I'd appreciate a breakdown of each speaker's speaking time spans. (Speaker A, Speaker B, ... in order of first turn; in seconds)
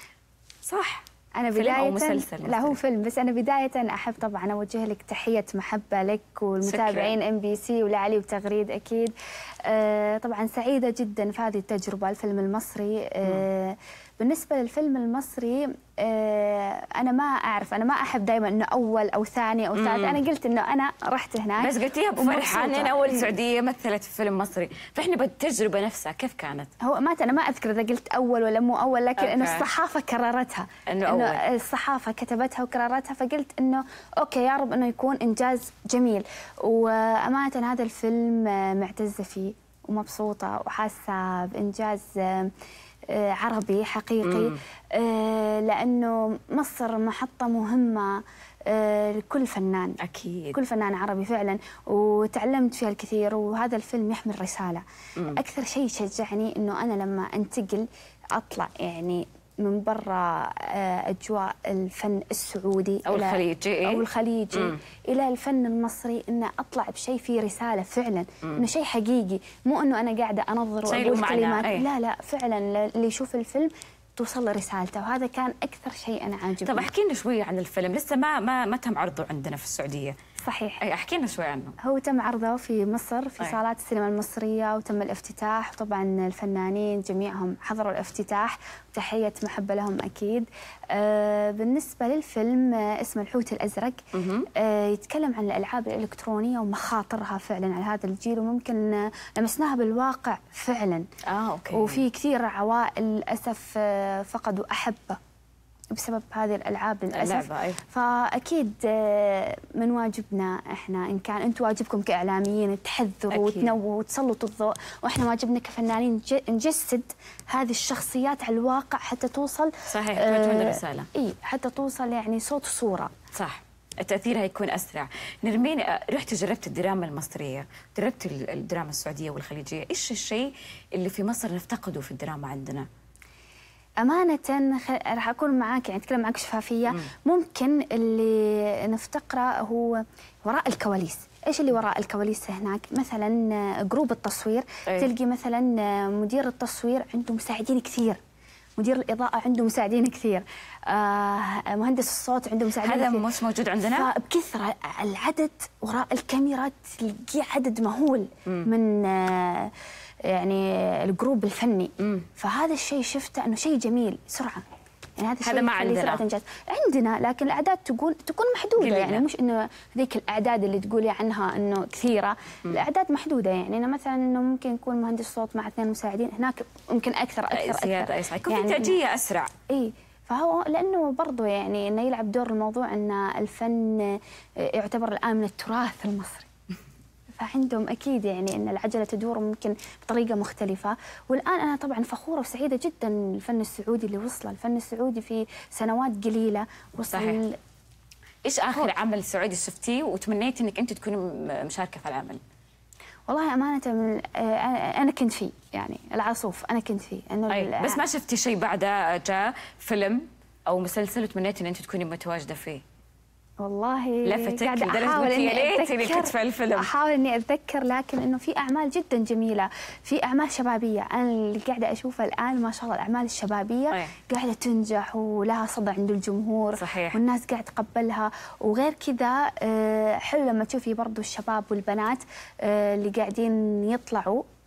Speaker A: 0.6-1.0, 1.5-2.8, 6.6-7.1, 19.7-20.2, 21.6-26.7, 29.1-29.7, 30.9-31.4, 44.2-44.6, 50.0-50.6, 63.0-64.8, 70.8-71.9, 76.6-80.2, 80.8-81.8, 94.1-94.5, 101.2-102.0, 107.1-107.8, 113.3-113.7, 119.9-121.1, 123.3-132.9, 152.8-154.1, 162.0-162.2, 165.4-166.2, 168.8-169.2, 177.5-179.5, 197.1-197.4, 198.4-202.4, 207.5-212.8, 214.2-216.9, 226.8-227.2
Speaker B: 1.4-9.1, 9.6-23.3, 26.8-42.5, 43.1-50.0, 50.5-76.9, 80.4-80.8, 81.8-94.0, 94.5-101.1, 101.7-105.2, 105.9-123.1, 134.0-148.2, 148.8-153.2, 153.8-159.7, 160.2-164.6, 165.2-179.0, 179.7-186.5, 187.4-197.6, 203.3-208.0, 213.6-234.4